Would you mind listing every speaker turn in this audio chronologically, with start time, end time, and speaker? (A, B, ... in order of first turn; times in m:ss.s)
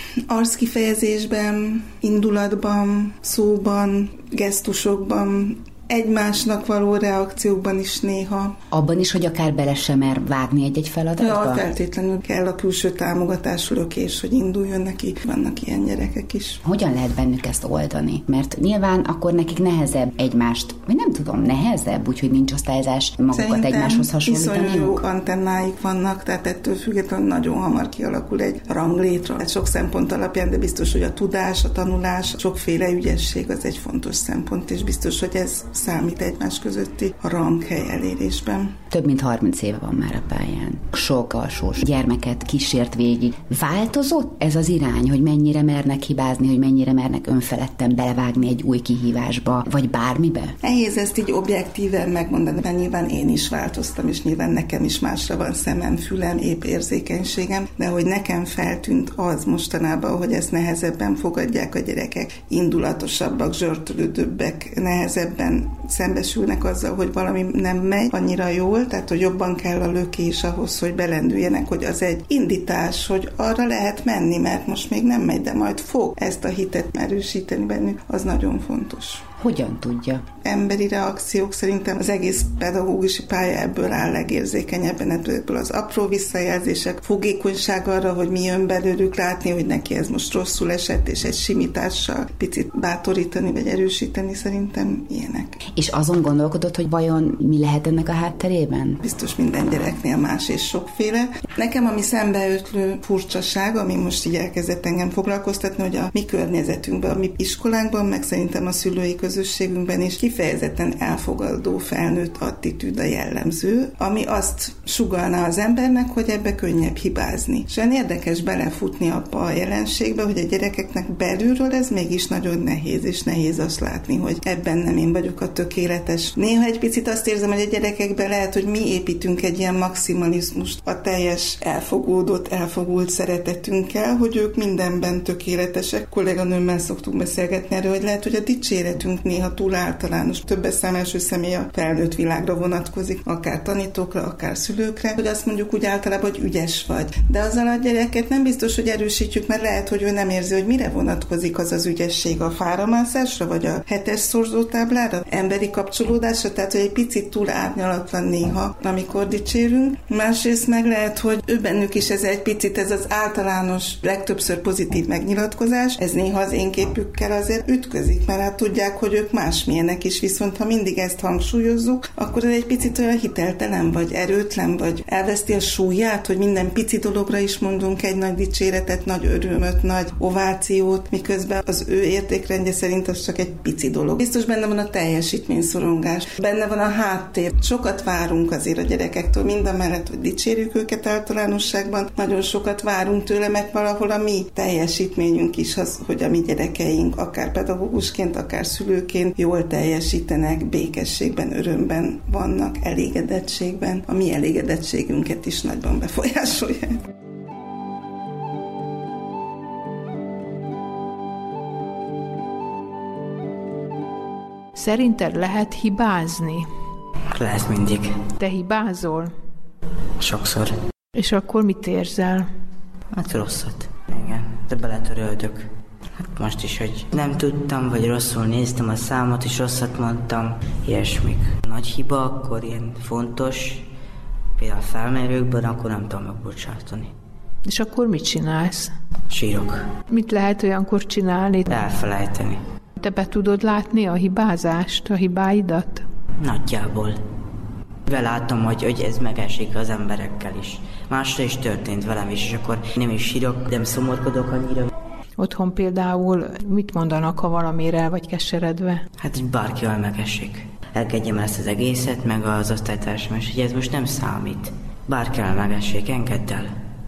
0:00.3-0:08.5 A
0:08.7-0:11.6 B
0:11.2-0:16.6 A
0:16.6-0:25.0 B
0:23.3-0:38.8 A
0:38.9-0:50.6 B
0:50.6-1:19.2 A
1:19.4-1:20.2 B
1:20.4-1:35.6 A
1:35.8-1:39.0 B
1:39.0-3:27.0 A
3:34.7-3:36.7 C
3:37.3-3:38.1 D
3:38.4-3:39.3 C
3:40.2-3:40.8 D
3:41.2-3:42.5 C
3:43.1-3:53.9 D
3:54.6-3:57.1 D
3:57.6-3:58.9 C
3:59.3-3:59.9 D
4:00.1-4:01.7 C
4:01.7-4:02.6 D
4:03.0-4:06.0 C
4:06.4-4:07.2 D
4:08.0-4:14.9 D
4:15.4-4:19.0 C
4:19.2-4:26.7 D